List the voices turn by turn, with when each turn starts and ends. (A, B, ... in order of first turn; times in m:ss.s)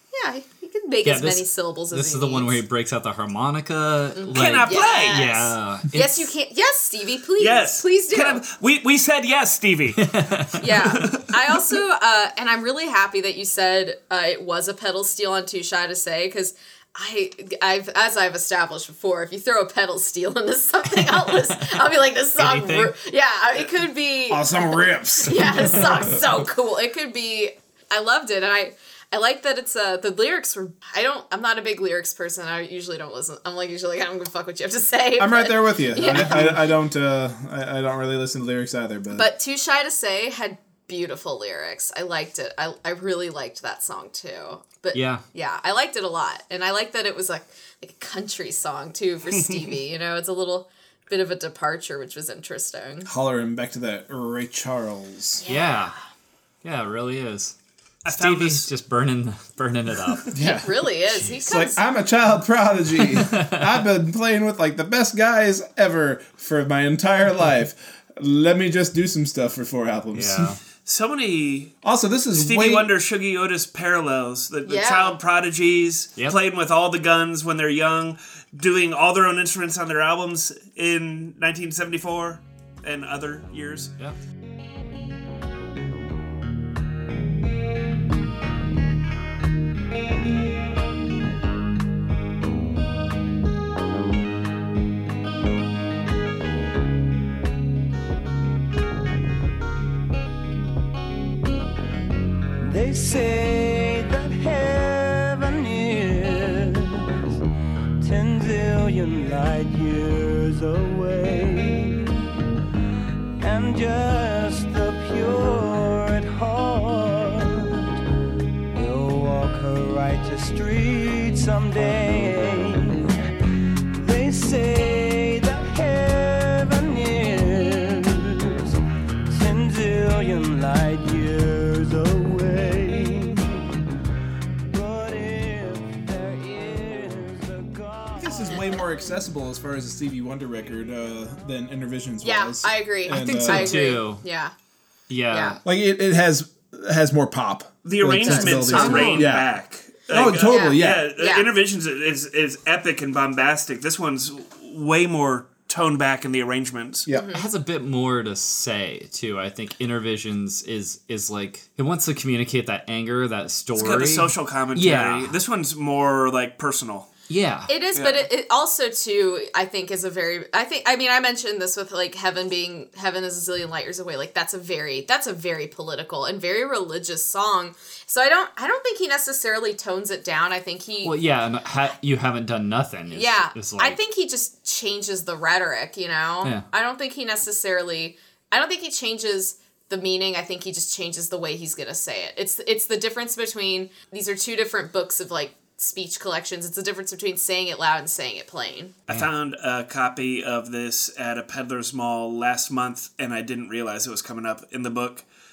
0:00.1-0:02.6 A
0:01.0-0:06.3 B
0:04.2-0:08.4 A
0:04.3-0:05.3 C
0:07.4-0:10.0 C
0:10.0-0:11.0 B
0:10.6-0:36.7 A
0:10.8-0:11.3 C
0:20.9-0:23.0 B
0:24.3-0:26.2 D
0:35.2-0:39.3 D
0:39.1-0:53.1 A
0:44.9-0:45.2 B
0:53.1-0:55.4 D
0:55.4-0:55.9 A
0:55.4-0:56.0 B
0:56.6-0:57.6 B
0:58.0-0:58.7 C
0:58.1-1:00.4 B
1:00.3-1:10.6 D
1:00.4-1:01.8 A
1:03.0-1:03.8 B
1:10.1-1:10.6 B
1:10.9-1:11.8 C
1:11.8-1:12.9 D
1:12.3-1:23.9 C
1:14.7-1:15.2 A
1:42.6-1:47.3 E
1:48.0-1:52.2 E
1:53.4-1:58.0 E
1:58.7-2:03.2 E
2:03.9-2:08.8 E
2:09.3-2:13.6 E
2:14.7-2:18.8 E
2:18.2-2:23.8 D
2:22.2-2:24.5 A
2:23.1-2:24.2 B
2:25.1-2:25.6 B
2:25.3-2:25.6 A
2:25.6-2:29.5 D
2:27.8-2:37.1 C
2:28.6-2:29.3 B
2:28.7-2:29.2 A
2:30.1-2:31.1 D
2:30.4-2:31.5 A
2:37.1-2:37.5 A
2:37.3-2:45.4 B
2:43.8-2:47.1 C
2:47.3-2:47.7 B
2:47.7-3:01.2 A
2:48.0-2:48.3 C
3:01.0-3:04.0 B
3:03.1-3:19.0 A
3:19.1-3:25.3 C